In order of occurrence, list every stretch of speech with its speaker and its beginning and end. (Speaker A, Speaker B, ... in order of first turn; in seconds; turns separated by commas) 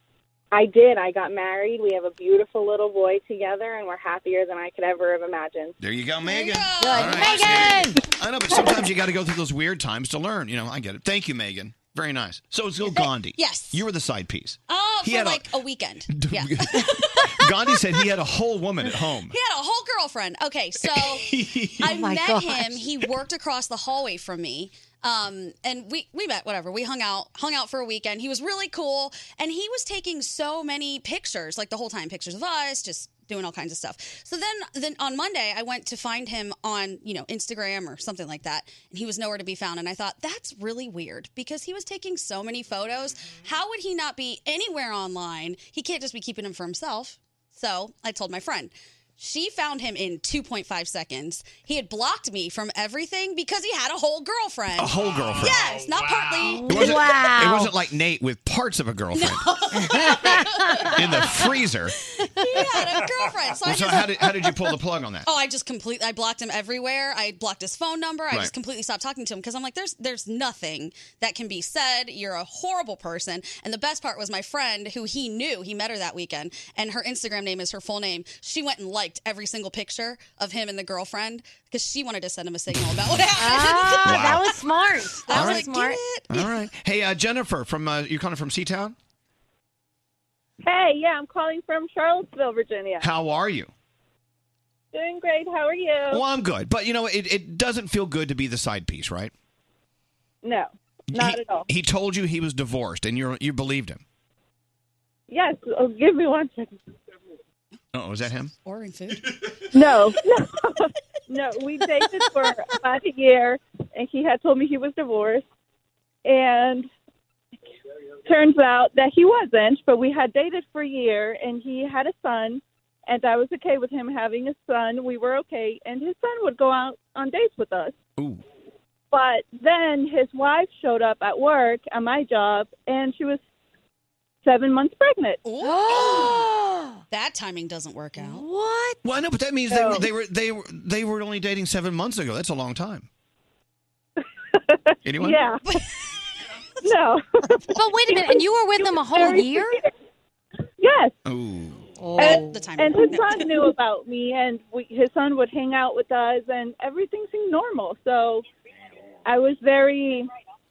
Speaker A: 0.5-5.8, Speaker B: 5.8-15.5, Speaker C: 6.2-8.0, Speaker D: 6.8-8.0, Speaker C: 12.9-13.8, Speaker C: 14.7-17.5, Speaker B: 16.1-19.4, Speaker C: 19.3-57.1, Speaker B: 20.8-21.9, Speaker D: 21.8-22.8, Speaker B: 54.8-55.8, Speaker D: 56.4-57.7, Speaker B: 56.7-59.5, Speaker C: 59.1-61.3, Speaker D: 59.7-61.4, Speaker B: 60.9-62.0, Speaker C: 62.2-64.5, Speaker D: 62.4-62.6, Speaker B: 63.6-65.3, Speaker C: 65.3-84.6, Speaker D: 83.4-86.0, Speaker B: 84.0-84.5, Speaker C: 85.2-86.5, Speaker B: 85.3-85.6, Speaker B: 86.3-89.0, Speaker E: 90.6-93.1, Speaker B: 93.0-93.7, Speaker E: 94.9-96.2, Speaker B: 96.1-99.3, Speaker E: 100.4-101.7, Speaker B: 101.1-104.0, Speaker E: 105.3-106.7, Speaker B: 107.9-108.5, Speaker C: 108.7-109.4, Speaker E: 109.7-115.5, Speaker E: 116.2-116.9, Speaker E: 118.3-128.0, Speaker B: 128.2-128.4, Speaker E: 129.1-133.4, Speaker E: 134.4-135.4, Speaker C: 135.4-136.5, Speaker D: 135.6-137.0, Speaker C: 137.1-138.5, Speaker D: 138.2-139.0, Speaker B: 139.0-143.1, Speaker E: 139.7-140.0, Speaker E: 144.7-145.6, Speaker B: 145.0-145.5, Speaker E: 146.8-149.6, Speaker D: 147.7-149.8, Speaker E: 150.8-151.2, Speaker B: 151.2-151.9, Speaker D: 152.0-152.6, Speaker C: 152.2-153.5, Speaker E: 152.2-158.4, Speaker E: 159.3-160.3